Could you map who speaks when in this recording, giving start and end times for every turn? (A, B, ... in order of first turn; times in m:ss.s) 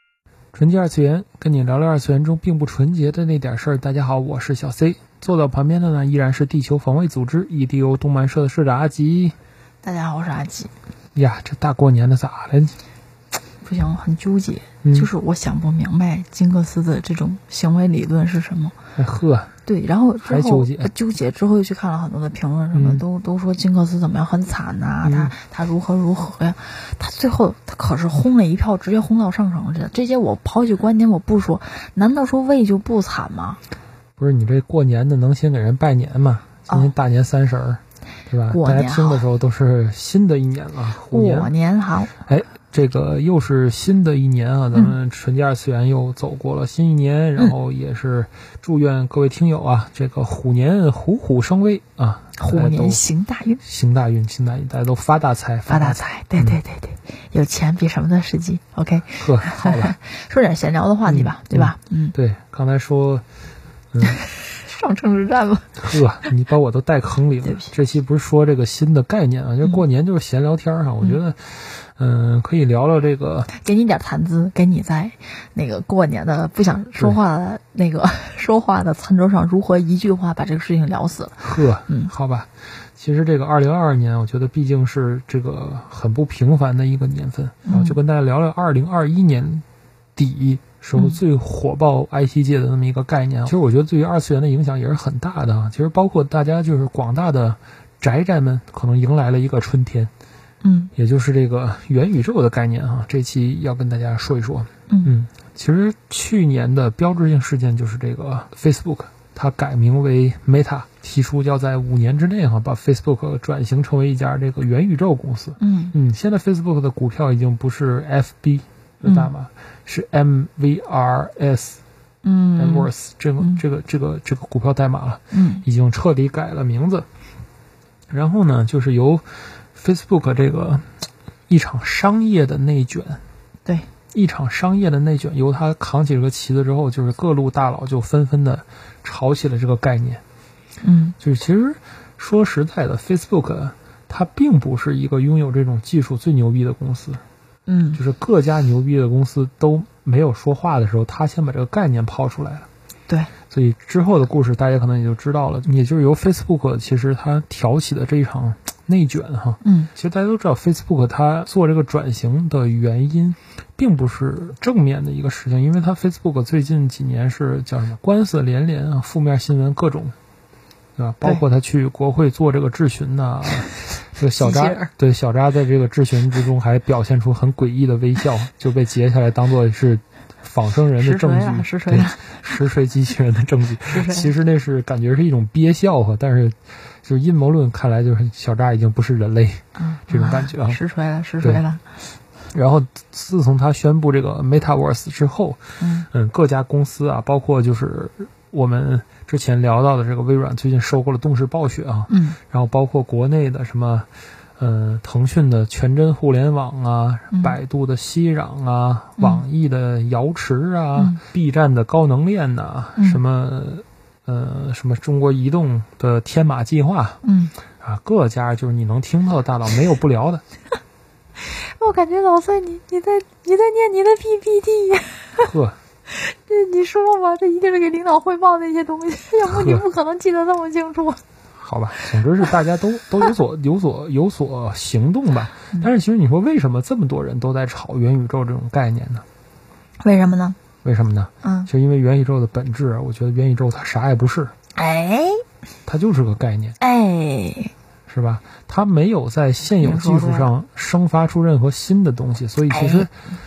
0:00.5-0:09.4 A
0:09.8-0:10.7 B
0:11.1-0:12.8 A
0:13.6-0:18.8 B
0:14.8-0:15.1 A
0:19.0-0:19.5 A
0:19.6-0:33.6 B
0:20.2-0:20.9 A
0:22.7-0:23.0 A
0:25.0-0:25.3 A
0:34.2-0:41.5 A
0:38.5-0:39.2 B
0:41.1-0:42.1 B
0:42.2-0:53.0 A
0:52.4-0:53.6 B
0:53.6-0:56.6 A
0:55.7-1:02.1 B
0:59.2-0:59.9 A
1:01.1-1:03.2 A
1:03.9-1:04.2 A
1:04.0-1:05.8 B
1:05.8-1:13.5 A
1:07.4-1:07.7 B
1:13.5-1:22.1 B
1:21.4-1:29.6 A
1:27.6-1:28.0 B
1:30.2-1:40.1 A
1:40.6-1:40.9 B
1:40.9-2:01.8 A
1:55.6-1:55.9 B
1:59.0-1:59.3 B
2:02.2-2:03.6 B
2:02.6-2:07.0 A
2:05.3-2:05.6 B
2:08.1-2:10.9 A
2:11.5-2:13.2 A
2:14.1-2:20.2 A
2:20.8-2:21.2 B
2:21.2-2:27.2 A
2:27.7-2:28.0 B
2:28.0-2:32.7 A
2:33.5-2:50.1 A
2:39.6-2:39.9 B
2:51.0-3:10.8 A
2:54.4-2:54.9 B
3:01.0-3:02.5 B
3:03.9-3:04.3 B
3:09.8-3:11.8 B
3:12.5-3:37.2 A
3:15.8-3:16.1 B
3:22.1-3:22.4 B
3:29.2-3:29.4 B
3:31.0-3:31.2 B
3:33.0-3:33.2 B
3:37.2-3:37.5 B
3:37.8-3:40.4 A
3:41.4-3:45.5 B
3:45.4-3:45.8 A
3:46.1-3:51.2 B
3:49.4-3:49.8 A
3:51.6-3:59.2 A
4:00.0-4:00.6 B
4:00.8-4:04.5 A
4:01.4-4:01.7 B
4:04.7-4:05.4 B
4:05.8-4:06.8 A
4:06.8-4:07.7 B
4:08.1-4:13.1 A
4:09.8-4:10.5 B
4:12.7-4:13.1 B